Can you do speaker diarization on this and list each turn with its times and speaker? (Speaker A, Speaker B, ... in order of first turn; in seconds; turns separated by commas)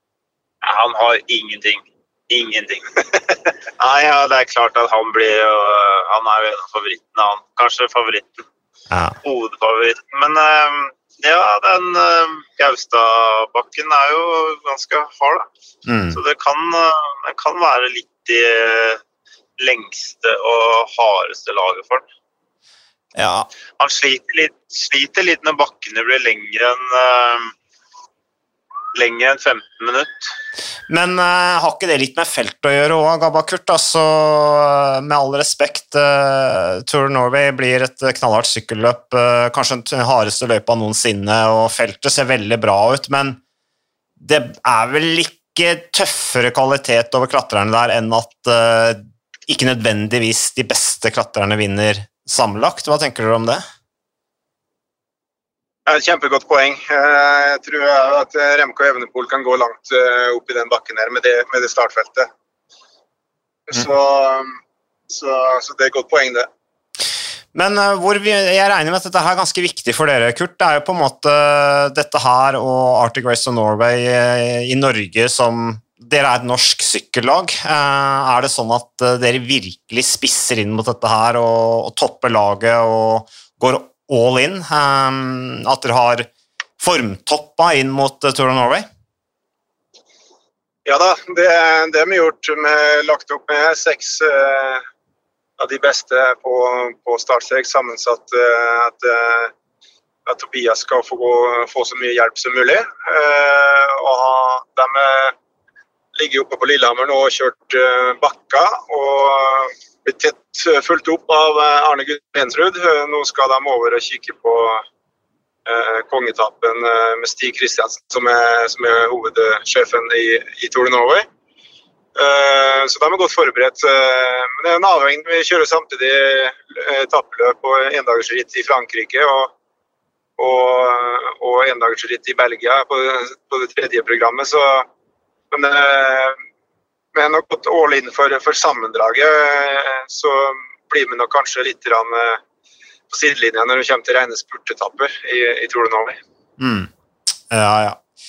Speaker A: 0.6-8.4, Speaker B: 8.9-9.2, Speaker A: 9.2-15.5, Speaker B: 15.8-16.2, Speaker A: 16.1-19.0, Speaker A: 19.6-22.0, Speaker B: 23.1-23.5, Speaker A: 23.8-27.5, Speaker A: 28.9-30.1, Speaker B: 30.9-43.4, Speaker B: 44.2-53.6, Speaker C: 55.9-62.3, Speaker C: 63.7-64.6, Speaker C: 65.1-66.5, Speaker B: 67.5-88.9, Speaker C: 90.8-94.8, Speaker C: 95.6-99.5, Speaker C: 100.2-105.3, Speaker C: 106.2-114.8, Speaker C: 115.7-121.3, Speaker C: 122.2-129.5, Speaker C: 130.4-134.9, Speaker C: 135.5-136.4, Speaker C: 137.1-142.4, Speaker C: 143.1-146.2, Speaker B: 146.6-146.9, Speaker B: 147.5-148.0